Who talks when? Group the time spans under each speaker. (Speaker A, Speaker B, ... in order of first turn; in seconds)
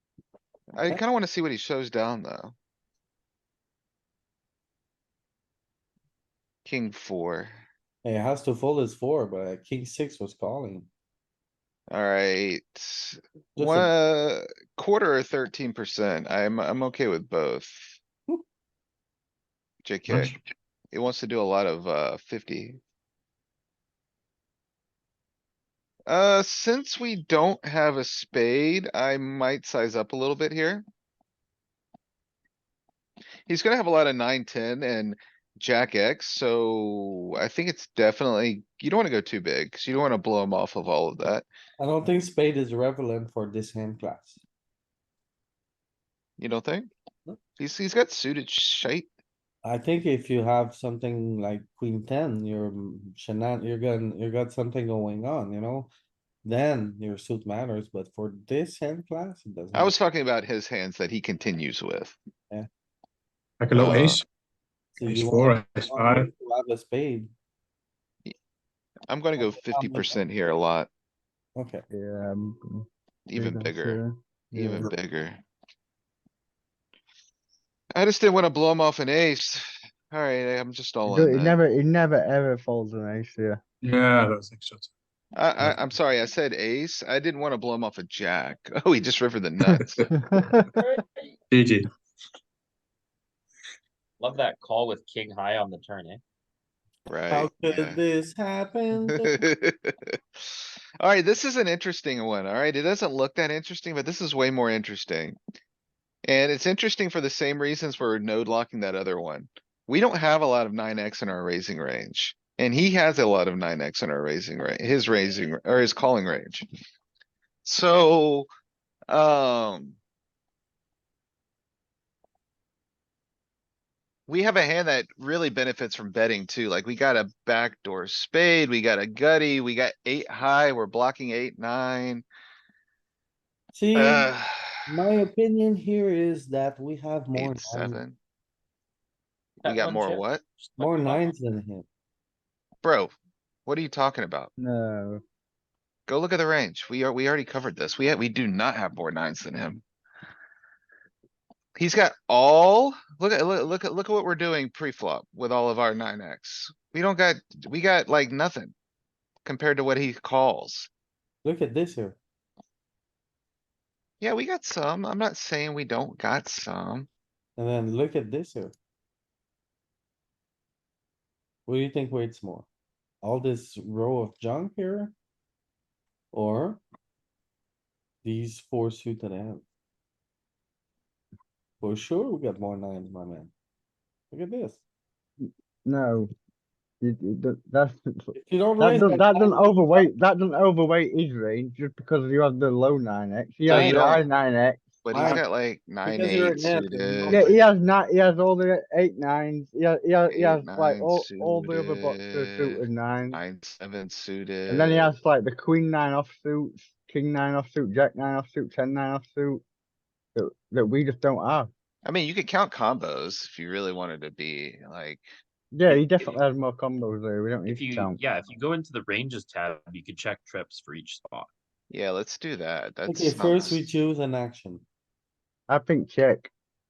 Speaker A: 0.7-2.5, 6.6-7.6, 11.9-18.0, 19.8-20.3, 20.9-22.8, 26.1-30.8, 33.5-41.5, 46.4-46.9, 47.6-49.1, 59.7-62.1, 63.7-64.2, 69.1-70.9, 73.3-74.0, 74.5-75.4, 77.9-81.6, 85.3-90.1, 97.1-98.0, 99.1-100.2, 101.0-105.4, 106.2-116.7, 117.6-118.5, 119.1-120.0, 124.3-132.2, 133.9-134.9, 137.3-138.2, 139.6-140.4, 142.8-143.1, 143.7-144.5, 146.1-149.8, 151.8-158.7, 159.4-160.9, 164.2-167.1, 193.7-194.2, 195.0-197.6, 200.3-205.1, 212.0-215.3, 221.9-223.9
Speaker B: 8.0-10.9, 13.6-13.9, 41.8-44.4, 49.6-55.9, 56.4-59.9, 65.0-67.3, 69.4-70.2, 71.5-71.8, 97.3-99.4, 133.7-134.3, 134.9-138.0, 140.8-141.8, 161.4-162.2, 167.6-168.7, 171.7-172.7, 173.2-175.1, 176.3-176.8, 178.2-179.6, 181.8-183.5, 184.3-184.8, 188.3-190.1, 193.7-194.2, 195.1-195.4, 196.1-197.5, 223.1-224.8
Speaker C: 20.1-20.3, 63.6-64.2, 65.0-66.3, 83.8-84.9, 91.5-91.9
Speaker D: 71.9-74.9, 81.1-83.6, 90.1-90.7, 144.6-145.2, 185.4-186.3, 187.0-195.0, 197.3-203.4, 204.7-209.6, 210.3-211.7, 215.7-218.2, 225.7-226.5
Speaker E: 90.8-91.3, 94.2-96.2, 139.6-141.3, 215.9-216.4, 217.7-221.5